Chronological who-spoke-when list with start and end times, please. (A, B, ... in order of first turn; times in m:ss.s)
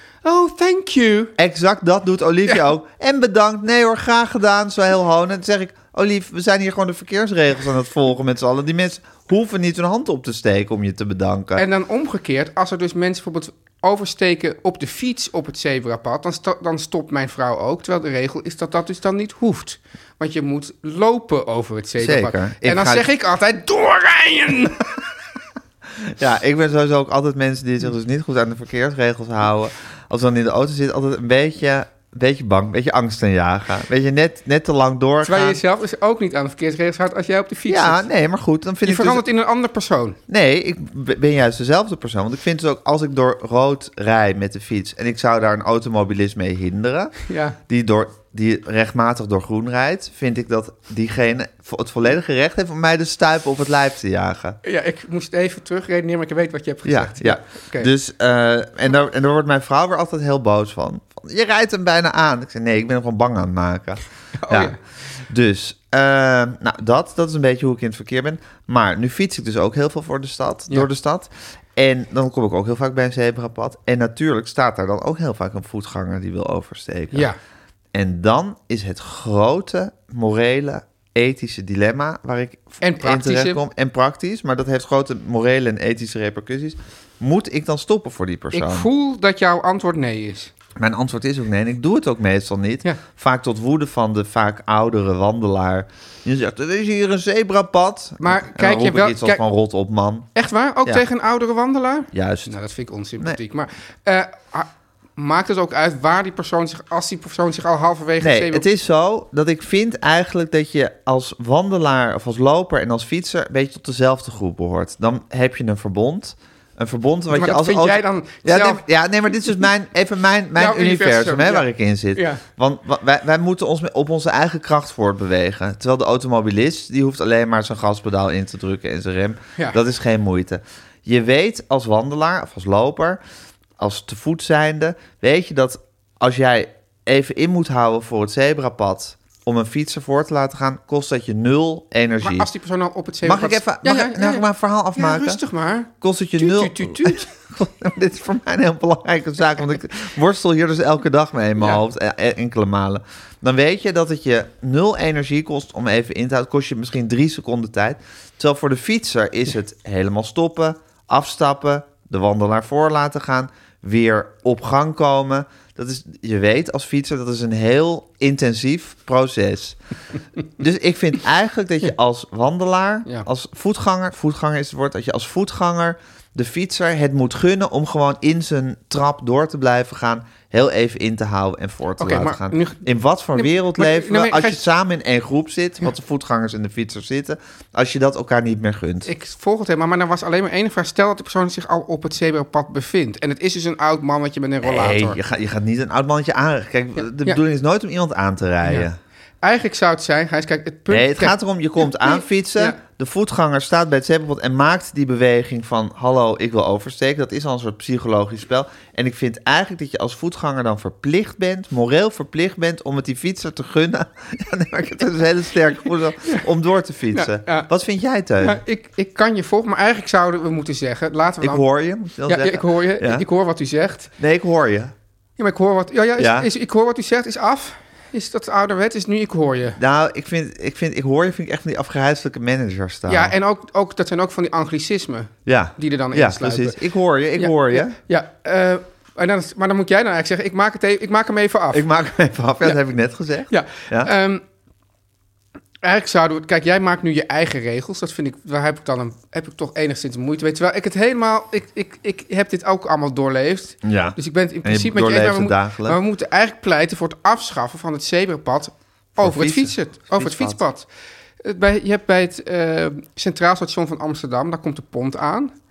0:00.2-0:01.3 A
0:01.4-0:11.6 B
0:11.6-0:24.9 A
0:22.0-0:23.1 B
0:26.0-0:35.6 B
0:35.2-0:38.0 A
0:37.7-0:39.2 B
0:38.8-0:40.2 A
0:40.3-0:47.2 B
0:47.3-0:47.6 A
0:47.7-0:54.6 B
0:54.6-0:57.9 A
0:56.8-1:17.3 B
1:04.4-1:04.8 A
1:17.1-1:17.4 A
1:17.9-1:28.9 B
1:22.8-1:23.6 A
1:28.5-1:30.5 A
1:30.8-1:40.3 B
1:38.2-1:39.4 A
1:40.4-1:48.6 A
1:42.1-1:42.5 B
1:48.2-2:13.2 B
1:57.3-1:58.8 A
2:00.6-2:02.4 A
2:13.8-2:22.5 B
2:22.2-2:27.3 A
2:23.2-2:25.4 B
2:26.0-2:49.8 B
2:50.6-3:09.1 B
3:02.0-3:02.8 A
3:03.4-3:04.6 A
3:09.0-3:15.2 A
3:14.6-3:19.0 B
3:19.4-3:22.8 A
3:20.9-3:38.6 B
3:37.1-3:37.7 A
3:38.4-3:41.6 A
3:41.4-3:43.3 B
3:42.3-3:44.1 A
3:44.2-3:44.9 B
3:45.4-3:49.8 A
3:46.2-3:46.5 B
3:49.8-3:53.3 B
3:53.1-3:56.8 A
3:55.5-3:58.0 B
3:57.4-4:01.8 A
4:01.7-4:04.1 B
4:03.5-4:04.4 A
4:05.8-4:20.9 A
4:13.8-4:16.0 B
4:19.2-4:20.6 B
4:21.4-4:25.5 A